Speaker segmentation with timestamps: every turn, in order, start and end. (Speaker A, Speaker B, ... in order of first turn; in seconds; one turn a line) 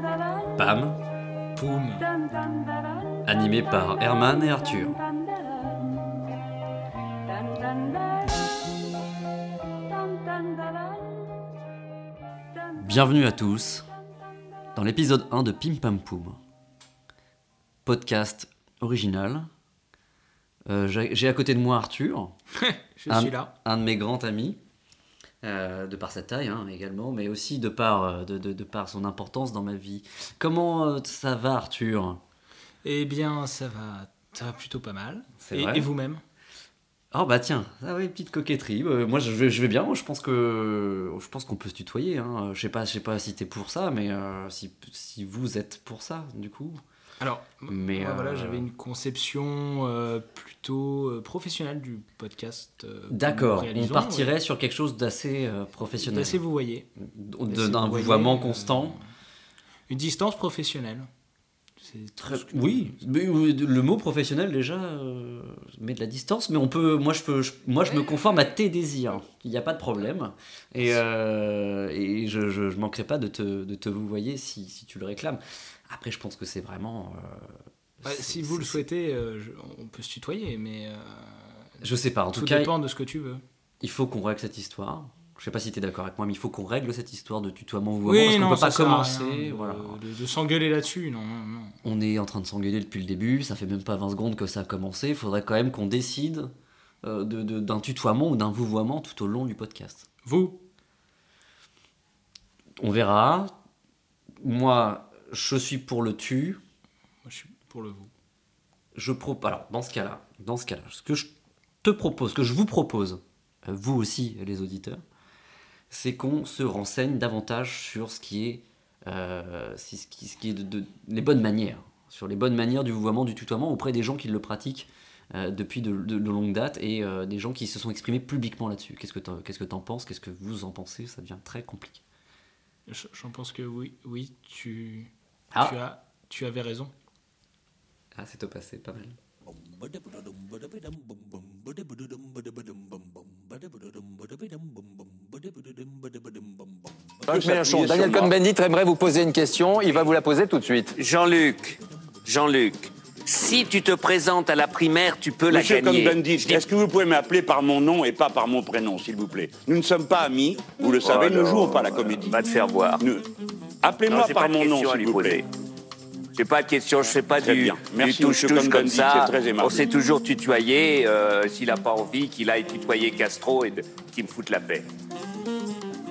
Speaker A: 0.6-1.0
Speaker B: 1.6-2.1
Speaker A: 3.2-5.0
Speaker A: 12.8-13.9
Speaker A: 14.8-16.4
Speaker A: 17.8-19.5
Speaker A: 20.7-22.4
Speaker B: 22.6-23.5
Speaker A: 23.1-24.6
Speaker A: 25.4-32.2
Speaker B: 32.8-36.2
Speaker A: 35.4-35.9
Speaker A: 37.1-46.8
Speaker B: 47.2-54.3
Speaker A: 47.7-48.7
Speaker A: 53.1-56.4
Speaker B: 56.1-56.9
Speaker A: 57.0-59.0
Speaker B: 57.5-59.0
Speaker B: 59.9-61.1
Speaker B: 61.8-63.0
Speaker A: 62.2-78.8
Speaker B: 78.0-81.7
Speaker A: 81.8-82.7
Speaker B: 82.3-83.4
Speaker A: 83.8-90.0
Speaker B: 88.0-91.8
Speaker A: 91.8-96.5
Speaker A: 97.0-100.1
Speaker B: 100.2-100.6
Speaker A: 102.8-103.5
Speaker A: 104.4-106.6
Speaker B: 107.2-108.1
Speaker A: 109.0-111.3
Speaker A: 111.8-115.0
Speaker A: 115.9-132.0
Speaker B: 132.9-136.9
Speaker A: 135.5-135.8
Speaker A: 138.2-139.2
Speaker C: 147.3-150.9
Speaker D: 151.0-156.7
Speaker E: 155.5-162.4
Speaker D: 160.8-163.0
Speaker E: 163.0-163.2
Speaker E: 163.8-165.4
Speaker D: 164.1-165.5
Speaker D: 166.3-174.8
Speaker E: 167.4-169.8